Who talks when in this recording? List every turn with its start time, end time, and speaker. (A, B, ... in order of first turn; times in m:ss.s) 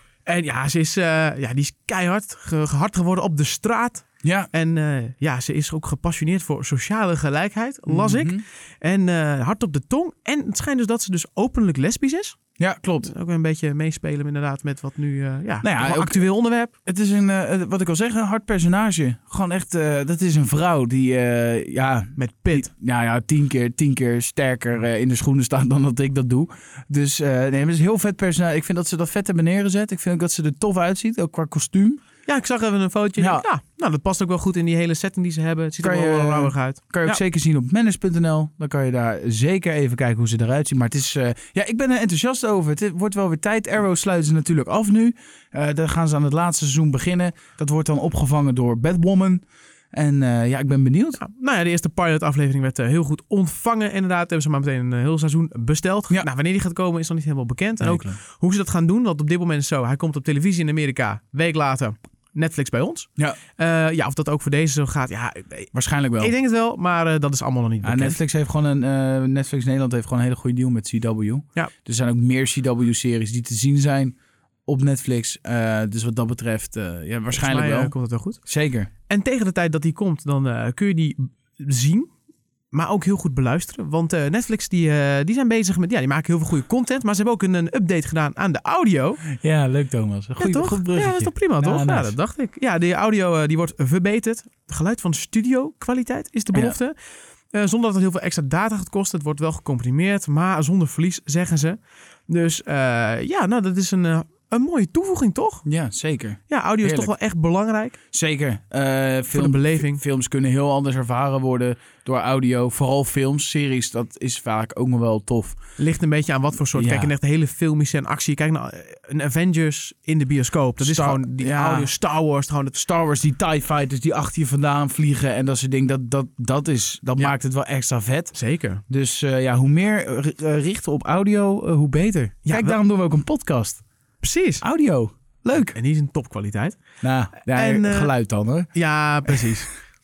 0:00.2-0:12.4 A
0:04.2-0:04.5 B
0:07.9-0:08.4 B
0:12.6-0:13.1 B
0:13.0-0:16.7 A
0:15.6-0:16.3 B
0:16.8-0:32.0 B
0:22.2-0:22.7 A
0:32.2-0:37.2 A
0:33.2-0:33.4 B
0:35.8-0:51.2 B
0:51.2-1:08.2 A
0:57.8-0:58.2 B
1:05.7-1:06.3 B
1:07.8-1:14.1 B
1:14.7-1:17.9 B
1:17.3-1:18.4 A
1:18.4-1:18.9 B
1:19.1-1:22.1 A
1:22.7-1:29.2 A
1:29.3-1:32.1 B
1:30.4-1:37.0 A
1:37.5-1:45.6 A
1:45.6-1:47.1 B
1:46.5-1:48.0 A
1:48.1-1:55.6 B
1:49.3-1:50.0 A
1:55.8-2:02.8 A
1:56.7-1:57.1 B
2:00.8-2:01.9 B
2:02.7-2:08.4 B
2:08.3-2:08.8 A
2:08.9-2:13.8 B
2:12.4-2:12.8 A
2:14.2-2:14.6 A
2:14.6-2:15.8 B
2:15.5-2:16.8 A
2:17.0-2:18.7 B
2:17.4-2:18.1 A
2:18.7-2:19.7 A
2:19.3-2:19.6 B